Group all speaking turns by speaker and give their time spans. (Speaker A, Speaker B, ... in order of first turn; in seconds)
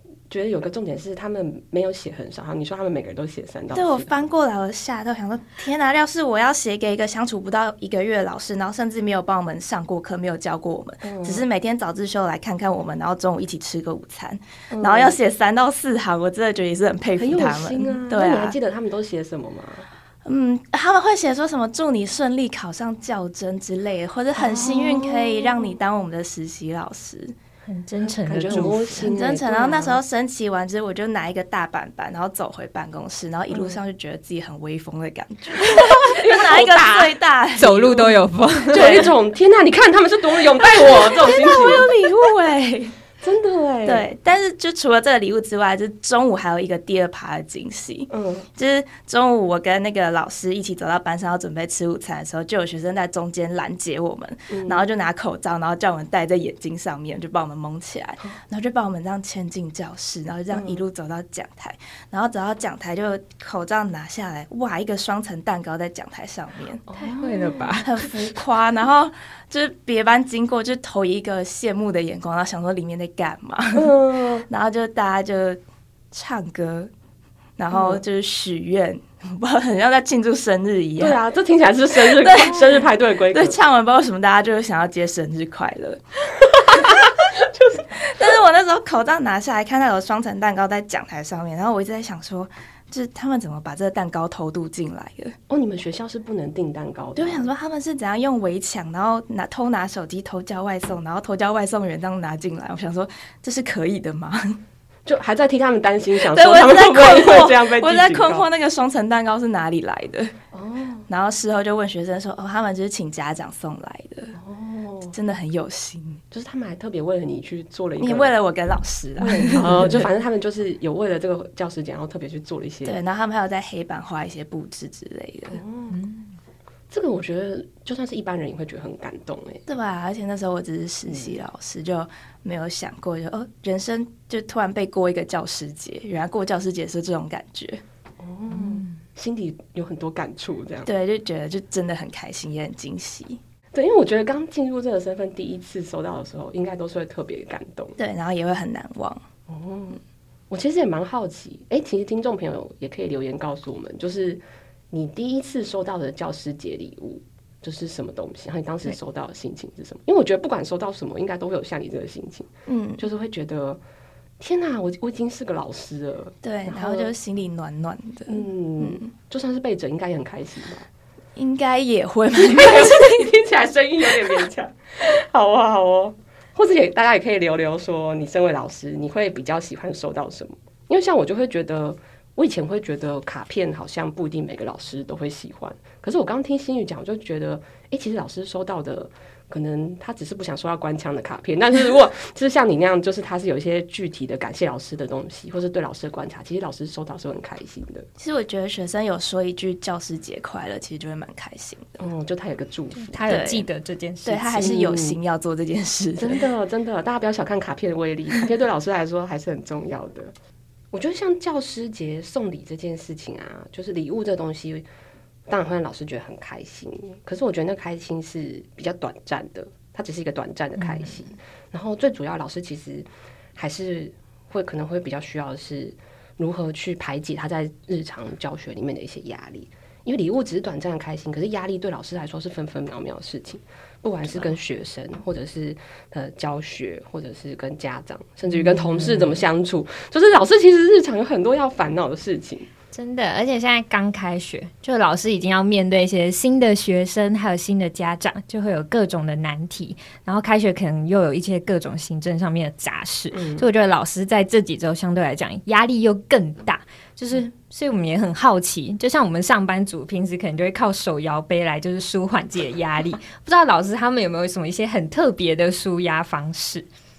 Speaker A: 0.3-4.2, 11.0-11.5, 14.7-15.2, 17.2-19.9, 24.4-25.7, 28.2-30.0, 33.5-33.8, 35.7-37.2, 38.7-41.9, 43.2-44.1, 48.1-48.5, 54.5-54.9, 60.5-60.8, 66.9-67.8, 73.8-74.5, 77.7-78.0, 81.0-83.6, 95.5-97.5, 105.1-108.5, 110.5-111.1, 114.4-115.1, 116.3-118.3, 119.2-123.0, 125.5-126.0, 126.9-129.6, 131.1-131.4, 138.2-140.9, 143.7-148.0, 149.5-163.8, 164.4-167.1, 168.3-170.9, 172.4-198.1, 202.0-203.3, 204.6-205.2, 206.2-210.3, 210.9-214.9, 215.5-242.7, 253.3-253.7
Speaker B: 3.7-18.6, 20.2-27.3, 28.5-38.1, 38.7-39.1, 40.6-42.9, 43.8-66.8, 67.8-74.0, 74.5-75.6, 76.1-76.9, 77.6-81.2, 81.9-86.9, 87.9-95.4, 97.2-104.6, 106.2-110.3, 111.1-114.3, 115.1-116.2, 118.0-120.1, 122.8-125.6, 129.7-137.8, 140.8-143.4, 148.0-149.2, 162.7-163.1, 166.4-169.1, 171.4-173.3, 198.2-202.0, 203.3-203.7, 204.2-206.4
Speaker C: 27.7-29.1, 37.6-39.1, 67.0-68.0, 125.9-126.3, 138.5-138.9, 203.0-204.8, 220.8-221.2, 238.5-239.3, 242.9-266.9